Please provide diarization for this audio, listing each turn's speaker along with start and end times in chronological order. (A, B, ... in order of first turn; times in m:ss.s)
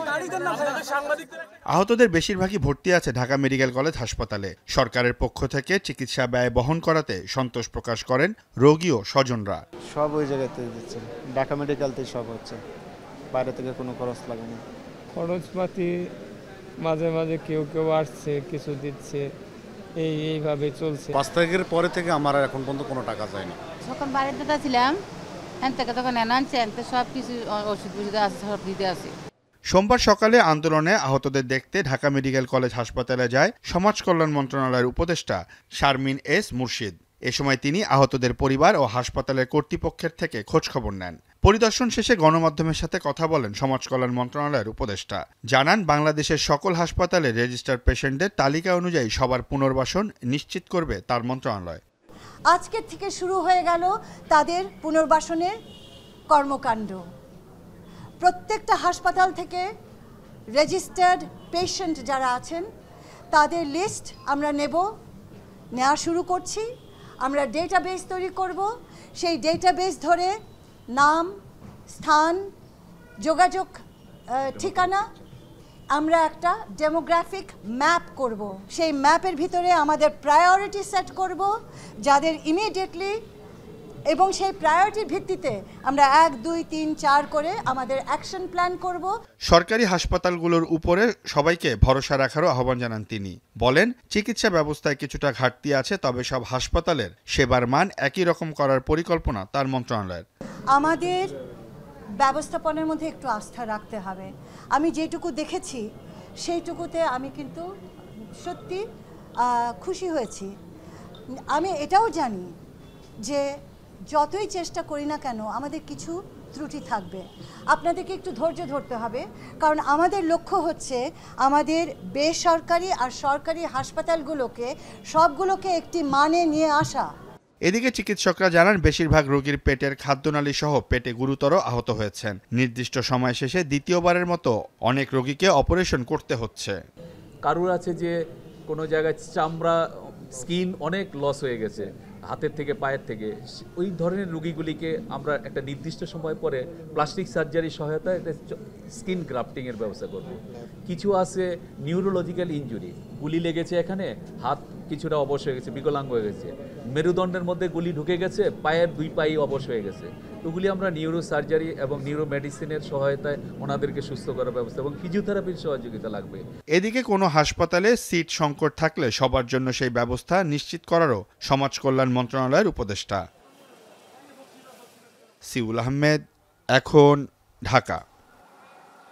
0:01.7-0:09.6 A
0:09.9-0:12.6 B
0:13.3-0:14.6 B
0:15.2-0:15.9 C
0:16.8-0:19.3 C
0:20.0-0:21.1 C
0:21.1-0:23.6 D
0:23.8-0:25.0 E
0:25.6-0:29.1 E
0:29.7-0:51.8 A
0:52.5-0:55.5 F
0:56.3-0:57.0 F
0:58.2-0:59.6 F
1:00.6-1:02.6 F
1:03.3-1:04.8 F
1:05.8-1:06.6 F
1:07.2-1:08.7 F
1:09.2-1:10.3 F
1:11.0-1:11.3 F
1:12.0-1:12.4 F
1:13.2-1:13.7 F
1:14.4-1:15.0 F
1:16.0-1:21.5 F
1:22.0-1:23.1 F
1:24.1-1:29.1 F
1:29.5-1:40.2 A
1:40.7-1:41.2 F
1:42.2-1:45.8 F
1:46.4-1:47.6 F
1:48.4-1:48.8 F
1:49.4-1:50.5 F
1:51.5-1:52.5 F
1:54.1-2:07.1 F
2:07.7-2:16.8 A
2:17.4-2:18.1 G
2:18.7-2:19.8 G
2:20.4-2:46.4 G
2:46.8-2:53.2 A
2:55.5-2:56.2 A
2:56.8-2:58.0 A